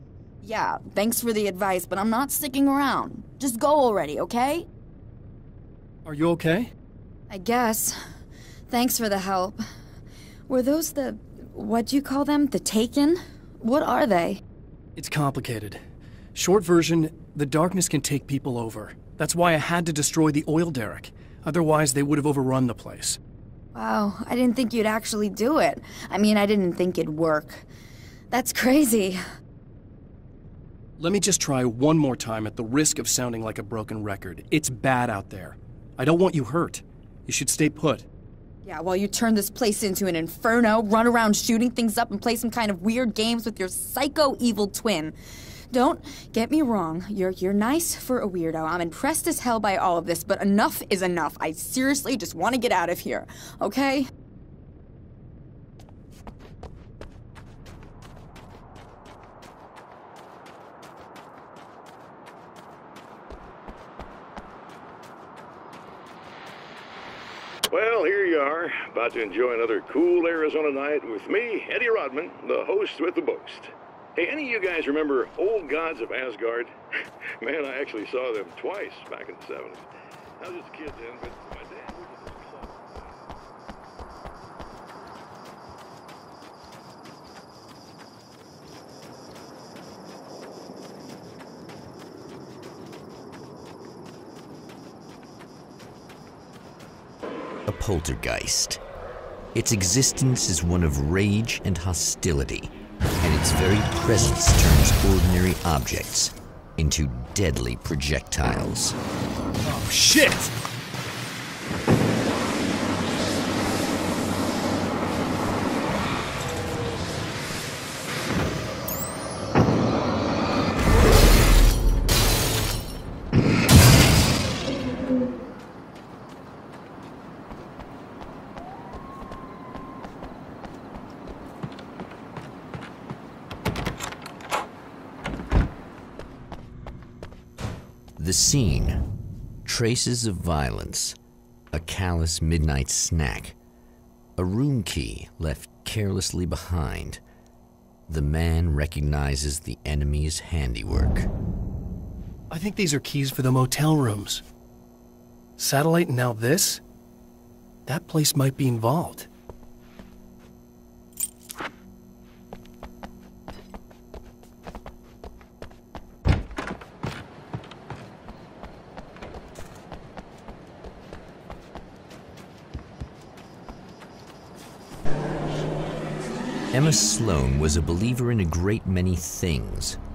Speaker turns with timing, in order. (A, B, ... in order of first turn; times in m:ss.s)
0:00.4-0:04.7 A
0:06.0-0:06.7 B
0:07.3-0:08.0 A
0:08.7-0:09.6 A
0:10.5-0:14.4 A
0:15.0-0:15.8 B
0:16.3-0:23.2 B
0:23.8-0:27.7 A
0:28.3-0:29.2 A
0:31.0-0:38.1 B
0:38.7-0:45.2 A
0:45.7-0:54.1 A
1:07.7-1:16.7 C
1:17.4-1:19.8 C
1:20.4-1:23.2 C
1:37.7-1:38.8 D
1:39.5-1:49.0 D
1:49.6-1:50.5 B
2:18.2-2:19.0 D
2:19.6-2:21.2 D
2:21.7-2:23.6 D
2:24.4-2:27.2 D
2:28.1-2:31.3 D
2:32.5-2:34.4 B
2:35.6-2:36.8 B
2:37.9-2:39.3 B
2:56.7-3:00.0 D